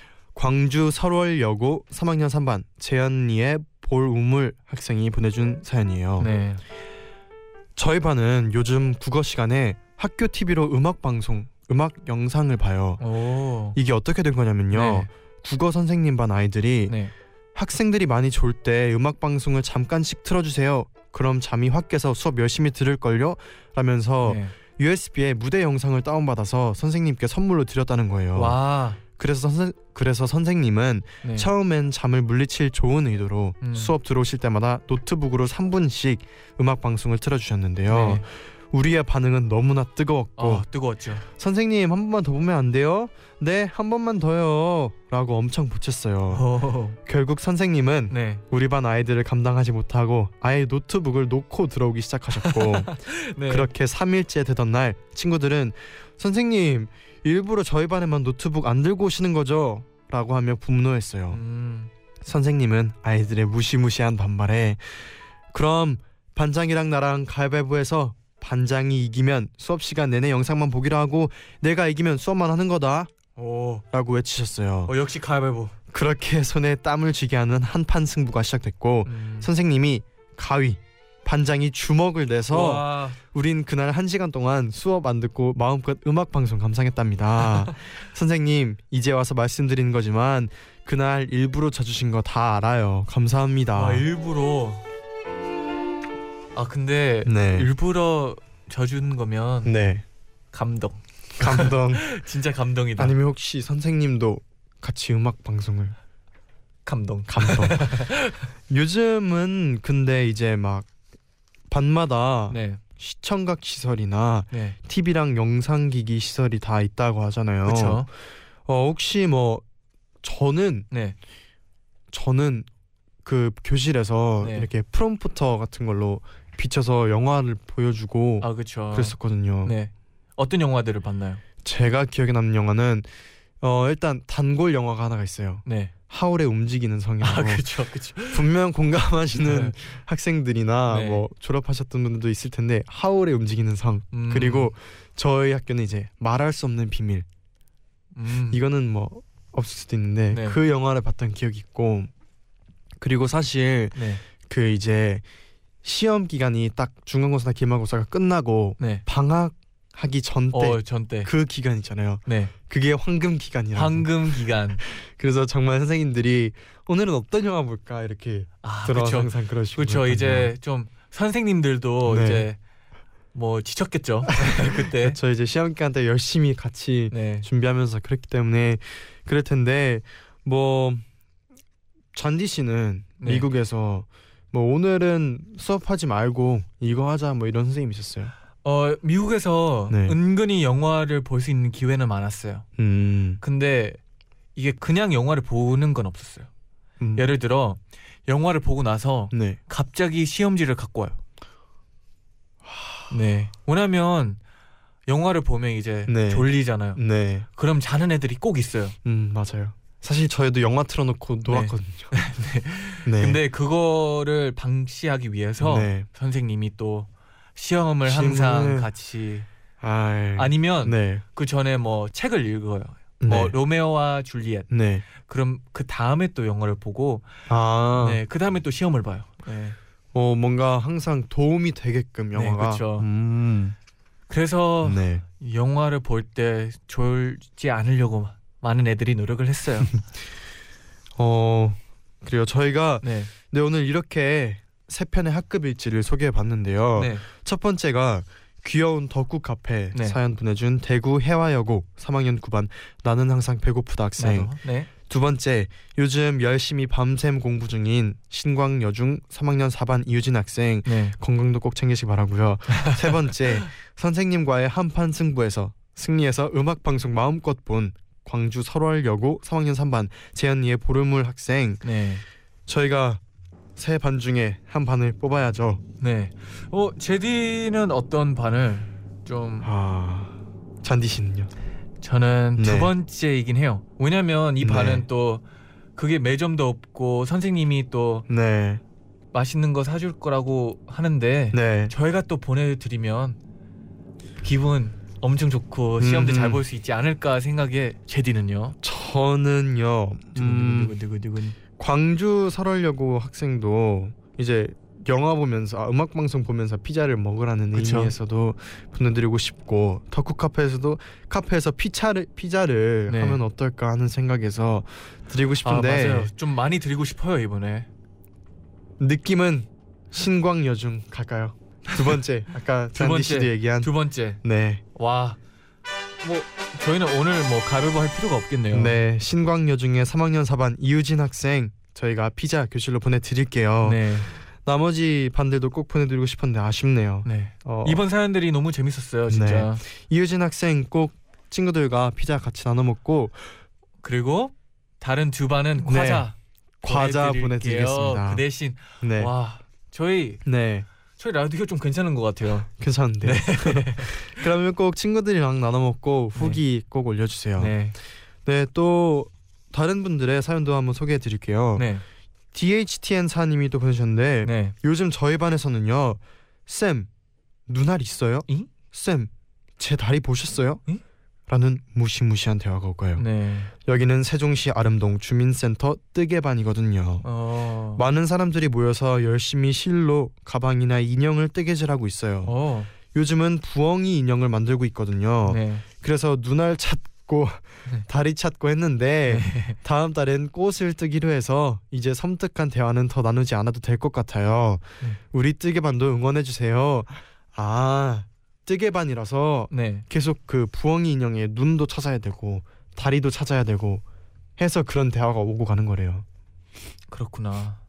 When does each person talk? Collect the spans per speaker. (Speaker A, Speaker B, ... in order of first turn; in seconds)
Speaker A: 0.3-6.3, 7.8-13.0, 13.7-16.9, 17.5-28.6, 29.2-40.6, 41.2-46.5, 47.0-61.4, 62.2-73.1, 73.9-74.9, 75.9-94.0, 97.2-97.7, 99.6-100.0, 101.4-102.0, 103.0-106.0, 107.3-107.9, 108.7-110.9, 111.7-118.1, 118.7-119.6, 120.2-120.9, 122.1-122.7, 123.2-129.7, 131.6-133.1, 133.6-137.7, 138.3-147.2, 148.5-152.1, 153.0-155.2, 155.8-170.5, 172.0-172.4, 174.3-181.0, 182.1-188.3, 189.9-190.2, 192.8-193.4, 197.0-197.2, 199.3-199.6, 202.6-203.1, 206.1-207.5, 209.0-212.1, 213.0-213.4, 215.6-216.1, 218.0-218.9, 219.8-221.2, 223.2-223.6, 224.7-225.0, 227.5-228.2, 230.1-233.7, 234.8-235.2, 241.2-271.8, 272.7-273.2, 273.8-275.8, 279.6-281.5, 282.6-282.9, 284.6-285.1, 288.3-288.8, 291.5-291.9, 296.0-296.6, 298.8-300.9, 301.8-316.3, 319.0-323.9, 324.4-324.8, 328.7-338.0, 339.3-343.4, 345.8-346.3, 346.8-348.4, 349.0-349.3, 350.4-350.9, 352.8-357.8, 358.4-361.9, 362.5-367.1, 367.7-370.8, 371.5-373.2, 373.8-377.2, 377.9-382.5, 383.1-404.0, 404.6-406.2
Speaker B: 6.2-6.6, 13.0-13.8, 14.7-15.1, 16.9-17.1, 24.2-24.5, 28.3-29.0, 31.2-31.5, 33.6-33.9, 37.9-38.2, 40.4-41.2, 46.3-47.0, 48.1-48.4, 52.4-53.7, 61.3-61.9, 73.3-73.8, 74.9-75.7, 79.0-79.5, 82.5-83.2, 93.7-94.8, 96.5-99.7, 100.5-103.2, 106.8-108.5, 112.5-112.8, 114.5-114.8, 117.6-118.1, 120.9-121.2, 124.4-124.7, 128.4-131.4, 135.7-135.9, 137.2-138.4, 139.4-139.7, 140.9-141.2, 144.1-144.7, 148.1-148.6, 150.3-150.6, 153.9-154.2, 158.8-159.0, 160.5-161.3, 162.2-162.5, 163.7-164.8, 168.6-172.6, 173.3-175.2, 177.1-177.5, 183.2-183.5, 188.6-192.6, 193.4-194.0, 194.5-196.5, 197.2-201.2, 203.1-204.4, 205.1-207.0, 207.6-208.9, 211.5-219.5, 220.3-227.3, 227.9-229.8, 232.3-233.1, 234.3-240.0, 243.0-243.3, 246.9-247.2, 254.2-254.9, 260.8-261.1, 271.8-272.2, 276.0-279.7, 282.0-285.4, 285.9-288.3, 289.3-293.4, 294.4-298.8, 300.3-301.6, 307.7-308.1, 313.1-313.4, 315.6-317.9, 322.9-324.4, 324.9-325.4, 326.2-328.9, 333.8-334.3, 337.2-339.8, 344.0-350.4, 351.2-352.7, 353.2-354.4, 356.4-356.6, 357.6-357.9, 361.8-362.0, 364.4-364.7, 373.2-373.7, 377.2-378.0, 382.4-382.9, 385.4-385.8, 389.3-389.8, 399.7-400.0, 407.1-407.8